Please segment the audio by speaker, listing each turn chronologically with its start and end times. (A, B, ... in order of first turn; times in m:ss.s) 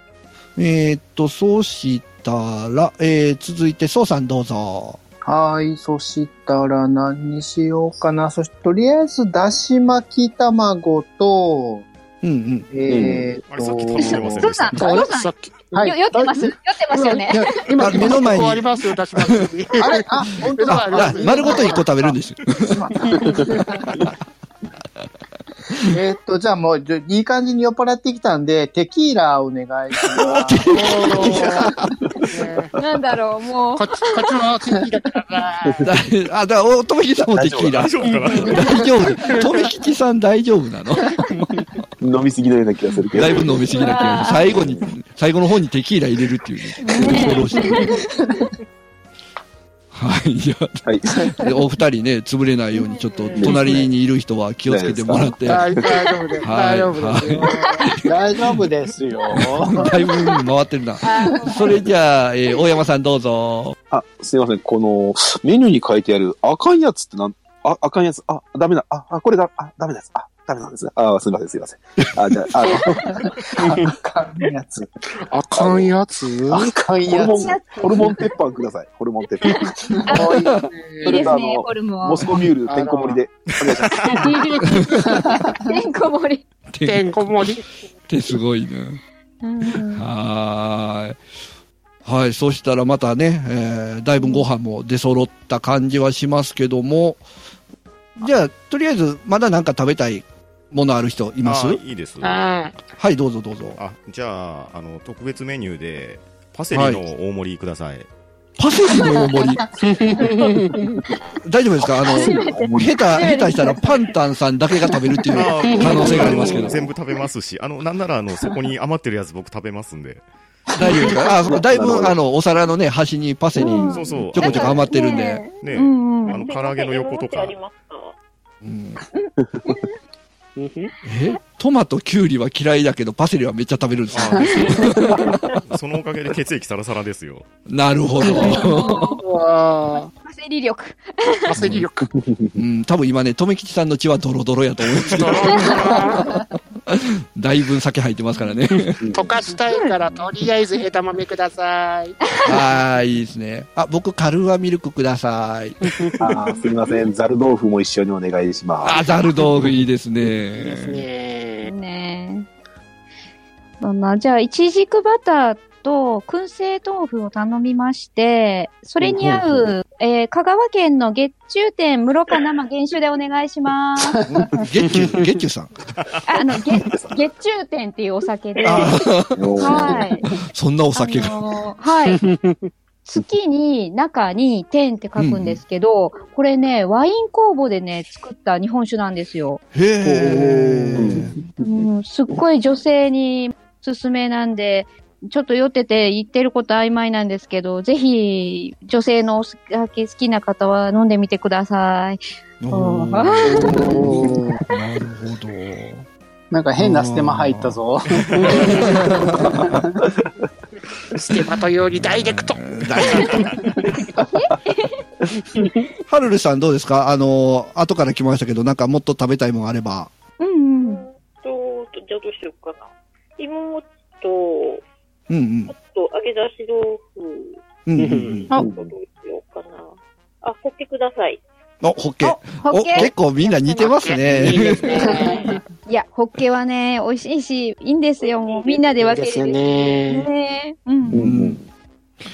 0:00.6-0:05.0 A
0:05.2-0:11.9 B
0:12.2-0:12.7 A
0:12.7-0:14.4 B
0:12.9-0:13.3 C
0:13.5-0:14.9 D
0:14.0-0:18.1 E
0:14.7-0:16.3 F
0:15.7-0:16.4 B
0:16.9-0:21.8 F
0:17.8-0:18.7 A
0:19.8-0:21.9 B
0:20.7-0:22.8 A
0:22.7-0:23.9 B
0:23.2-0:23.5 C
0:25.8-0:31.4 B
0:30.2-0:31.9 A
0:30.7-0:31.7 F
0:32.3-0:32.7 F
0:32.8-0:34.3 E
0:33.7-0:35.8 F
0:35.8-0:41.7 A
0:37.2-0:38.6 C
0:37.7-0:38.7 D
0:39.3-0:39.6 F
0:42.0-0:44.9 C
0:43.1-0:47.9 A
0:43.7-0:44.5 E
0:46.8-0:48.1 E
0:49.9-0:55.7 A
0:50.8-0:51.2 C
0:52.7-0:53.7 E
0:53.3-0:53.9 C
0:54.7-0:55.8 C
0:55.4-0:57.9 F
0:56.4-0:57.9 A
0:58.0-0:59.9 B
0:59.4-1:03.8 A
0:59.8-1:00.5 E
1:01.0-1:01.7 E
1:03.9-1:13.1 C
1:13.0-1:14.9 B
1:15.3-1:16.7 F
1:15.5-1:15.9 C
1:16.5-1:18.1 B
1:17.1-1:19.9 C
1:17.3-1:18.4 E
1:19.4-1:22.3 E
1:20.1-1:21.4 F
1:21.0-1:24.4 C
1:22.6-1:23.2 F
1:24.0-1:25.1 F
1:25.6-1:26.4 E
1:26.7-1:27.4 A
1:26.8-1:27.6 F
1:28.1-1:29.0 A
1:29.4-1:30.0 E
1:29.9-1:31.2 A
1:32.0-1:37.2 A
1:34.2-1:34.5 E
1:38.2-1:41.8 A
1:41.4-1:42.4 D
1:42.2-1:42.7 F
1:43.0-1:43.8 A
1:43.8-1:48.1 D
1:46.7-1:47.0 A
1:48.6-1:49.6 A
1:49.8-1:50.9 F
1:51.4-1:56.9 A
1:52.0-1:54.1 E
1:52.2-1:53.0 C
1:55.3-2:00.2 D
1:55.6-1:56.4 F
1:56.2-1:56.8 C
2:00.8-2:05.4 A
2:01.2-2:02.2 C
2:03.6-2:06.5 E
2:03.6-2:03.9 C
2:03.8-2:04.9 D
2:05.6-2:07.5 D
2:06.2-2:08.1 G
2:08.6-2:09.0 A
2:09.2-2:09.9 E
2:10.6-2:10.9 F
2:11.0-2:15.4 A
2:14.1-2:15.0 D
2:15.7-2:17.4 D
2:17.7-2:19.2 A
2:18.2-2:18.6 F
2:18.4-2:19.2 E
2:19.2-2:20.1 F
2:20.2-2:21.7 E
2:21.5-2:22.1 F
2:22.1-2:22.6 C
2:22.6-2:25.9 A
2:25.0-2:26.3 F
2:25.4-2:26.0 E
2:26.9-2:29.0 A
2:28.3-2:28.6 E
2:29.0-2:29.3 C
2:29.1-2:32.2 F
2:29.7-2:30.2 E
2:32.3-2:32.7 E
2:32.4-2:35.8 A
2:35.8-2:36.1 F
2:36.2-2:39.0 C
2:36.2-2:36.6 B
2:38.8-2:41.0 A
2:40.6-2:41.7 F
2:41.6-2:42.5 E
2:43.8-2:54.2 E
2:49.0-2:49.7 C
2:54.3-2:55.7 A
2:56.3-3:00.3 E
2:56.8-2:57.2 C
2:58.6-2:58.8 G
2:58.6-3:00.0 A
2:59.3-3:00.1 C
3:00.5-3:01.4 A
3:00.9-3:02.2 E
3:02.1-3:02.7 F
3:03.0-3:09.6 E
3:05.2-3:05.6 A
3:09.7-3:11.4 A
3:10.0-3:11.7 C
3:11.6-3:23.9 E
3:22.6-3:26.0 A
3:23.4-3:24.5 F
3:23.5-3:24.5 B
3:26.5-3:30.0 B
3:26.8-3:29.8 A
3:28.4-3:28.8 F
3:31.1-3:33.6 F
3:31.9-3:33.5 A
3:34.3-3:35.0 E
3:36.1-3:40.1 A
3:40.4-3:41.0 E
3:40.8-3:44.8 G
3:45.3-3:45.7 A
3:45.7-3:47.6 G
3:47.8-3:48.5 A
3:48.0-3:48.5 F
3:48.5-3:48.9 C
3:48.6-3:49.9 G
3:50.4-3:51.4 G
3:51.8-3:55.1 A
3:52.2-3:53.1 E
3:53.8-3:55.5 F
3:55.9-4:01.3 E
3:58.2-3:59.2 G
3:59.0-4:00.3 F
4:01.1-4:01.6 C
4:01.1-4:01.6 A